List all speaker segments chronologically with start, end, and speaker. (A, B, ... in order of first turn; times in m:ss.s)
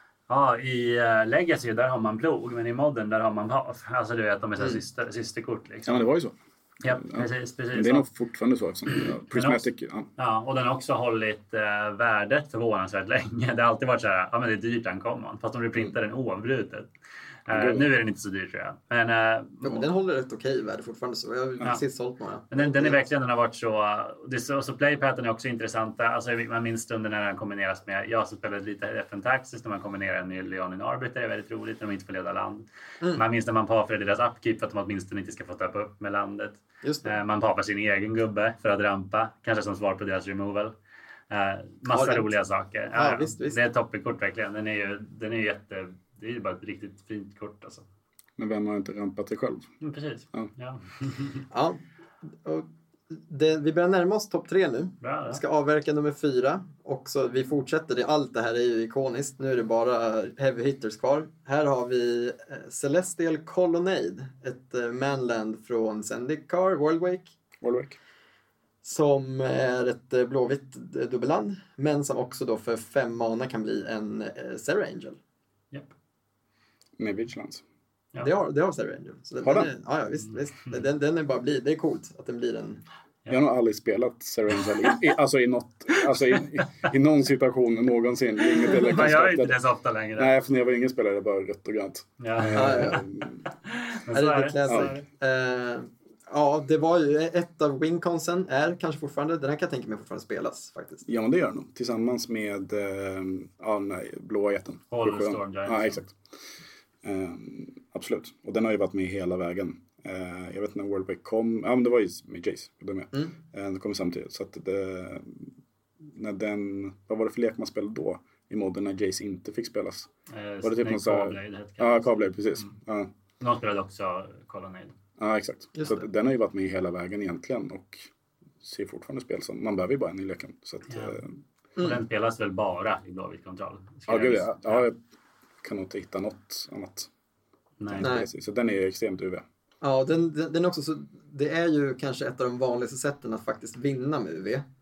0:00.3-0:06.0 A
0:05.9-0:10.1 B
0:06.8-0:08.1 A
0:08.9-0:09.6 A
0:10.2-0:16.9 A
0:17.5-0:19.9 A
0:17.5-0:17.9 B
0:19.6-0:23.0 C
0:22.5-0:40.7 A
0:36.8-0:37.2 C
0:41.3-0:47.8 A
0:41.9-0:42.3 C
0:42.9-0:43.6 C
0:48.4-0:49.7 B
0:49.8-0:51.5 A
0:51.5-0:51.8 C
0:52.4-1:07.4 C
0:55.0-0:55.4 A
1:07.6-1:08.0 B
1:08.8-1:15.2 C
1:17.0-1:17.6 B
1:18.2-1:22.8 C
1:19.4-1:19.7 B
1:23.3-1:29.6 B
1:26.1-1:26.9 A
1:28.4-1:30.4 A
1:30.2-1:33.4 B
1:32.2-1:35.0 A
1:32.5-1:33.0 C
1:34.1-1:41.0 C
1:34.7-1:34.9 B
1:41.1-1:46.2 B
1:44.9-1:46.0 A
1:47.0-1:55.5 B
1:56.1-2:00.1 B
2:00.3-2:02.6 A
2:00.6-2:03.1 B
2:03.4-2:05.0 A
2:05.2-2:08.1 B
2:05.8-2:06.1 C
2:08.6-2:11.3 B
2:10.9-2:11.2 A
2:11.8-2:14.8 A
2:14.1-2:15.0 B
2:15.6-2:17.1 B
2:17.8-2:18.1 A
2:17.9-2:19.4 B
2:18.0-2:18.3 C
2:19.8-2:24.6 C